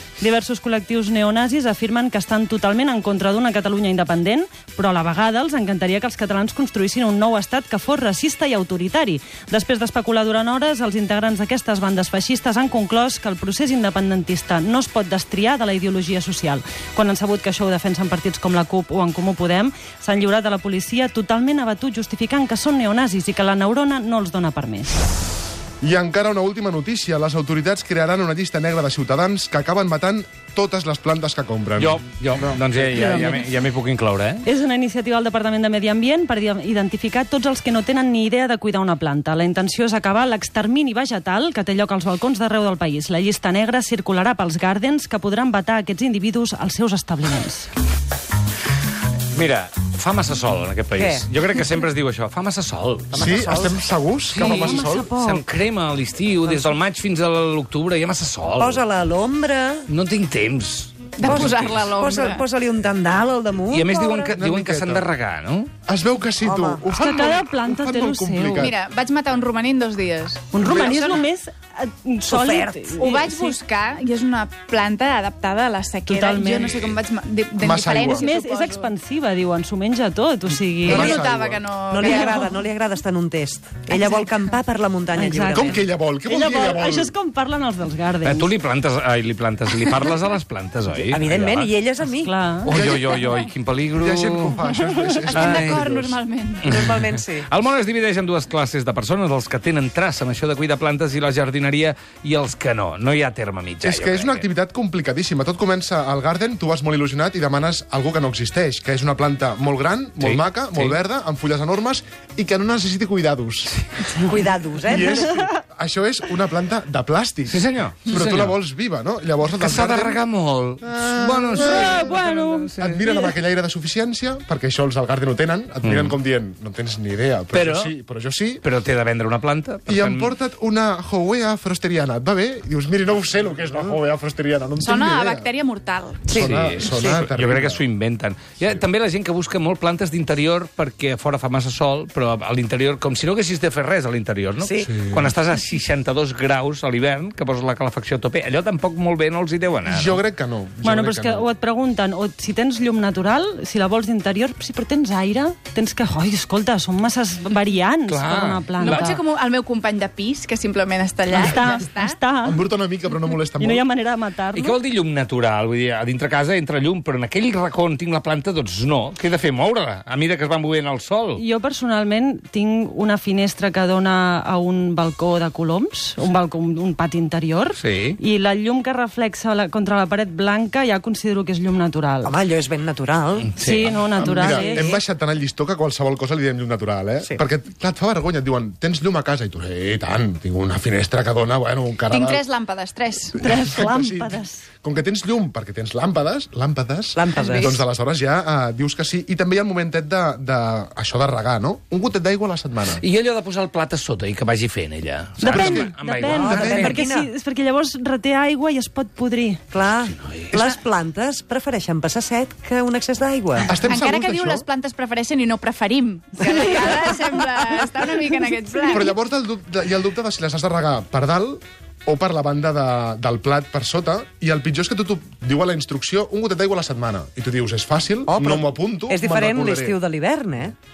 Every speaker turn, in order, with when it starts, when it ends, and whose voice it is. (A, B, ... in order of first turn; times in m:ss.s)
0:00.2-0:24.9 A
0:25.8-0:32.0 B
0:31.8-0:34.4 C
0:32.9-0:33.4 A
0:34.4-0:47.7 A
0:49.3-0:53.3 C
0:50.9-0:51.2 D
0:53.1-0:53.8 D
0:53.1-0:55.1 B
0:54.3-0:58.8 C
0:54.3-0:55.4 A
0:56.4-0:56.8 D
0:58.6-0:59.8 D
0:59.9-1:01.8 C
1:01.2-1:02.4 E
1:01.2-1:04.3 D
1:03.7-1:05.7 C
1:04.3-1:05.1 B
1:05.9-1:08.8 B
1:06.4-1:06.8 D
1:06.9-1:08.7 A
1:08.6-1:11.2 E
1:10.5-1:13.6 A
1:12.2-1:13.0 D
1:13.0-1:18.9 E
1:16.1-1:16.7 A
1:16.7-1:17.0 C
1:17.6-1:18.2 B
1:18.0-1:21.1 A
1:20.8-1:21.6 B
1:20.8-1:21.3 D
1:21.2-1:22.5 E
1:21.9-1:25.9 D
1:25.2-1:28.5 A
1:25.5-1:27.1 B
1:28.2-1:31.7 C
1:31.1-1:32.3 D
1:32.2-1:32.7 A
1:32.6-1:34.6 C
1:32.7-1:33.2 B
1:34.0-1:36.2 B
1:35.3-1:36.7 E
1:35.3-1:35.8 C
1:36.6-1:44.4 C
1:36.7-1:37.4 D
1:43.8-1:54.2 B
1:50.2-1:51.0 C
1:54.1-1:55.3 D
1:54.8-2:00.2 B
1:57.5-1:58.6 C
1:59.6-2:03.0 C
2:00.8-2:02.1 B
2:01.5-2:03.2 A
2:02.8-2:08.6 B
2:05.8-2:06.2 C
2:07.5-2:07.9 C
2:08.6-2:10.3 C
2:09.9-2:15.5 B
2:14.8-2:16.3 E
2:16.3-2:17.2 D
2:16.3-2:17.8 B
2:16.3-2:30.2 C
2:24.6-2:24.9 D
2:24.8-2:25.3 B
2:29.8-2:31.4 B
2:30.8-2:39.2 A
2:38.1-2:39.2 C
2:38.8-2:42.2 E
2:41.3-2:42.6 A
2:42.4-2:43.8 B
2:43.5-2:44.8 A
2:44.5-2:51.4 C
2:51.4-3:02.3 A
2:57.8-2:58.2 C
3:02.2-3:03.5 D
3:03.6-3:04.0 C
3:03.6-3:04.9 A
3:04.2-3:12.4 B
3:04.2-3:05.0 D
3:12.1-3:13.4 E
3:13.4-3:23.0 B
3:13.4-3:14.6 A
3:17.1-3:17.8 D
3:23.0-3:27.0 C
3:25.4-3:29.6 A
3:25.5-3:27.0 B
3:26.2-3:27.3 D
3:29.7-3:33.8 D
3:30.0-3:30.7 C
3:33.7-3:34.6 B
3:33.9-3:39.1 E
3:38.9-3:50.0 B
3:48.3-3:50.7 D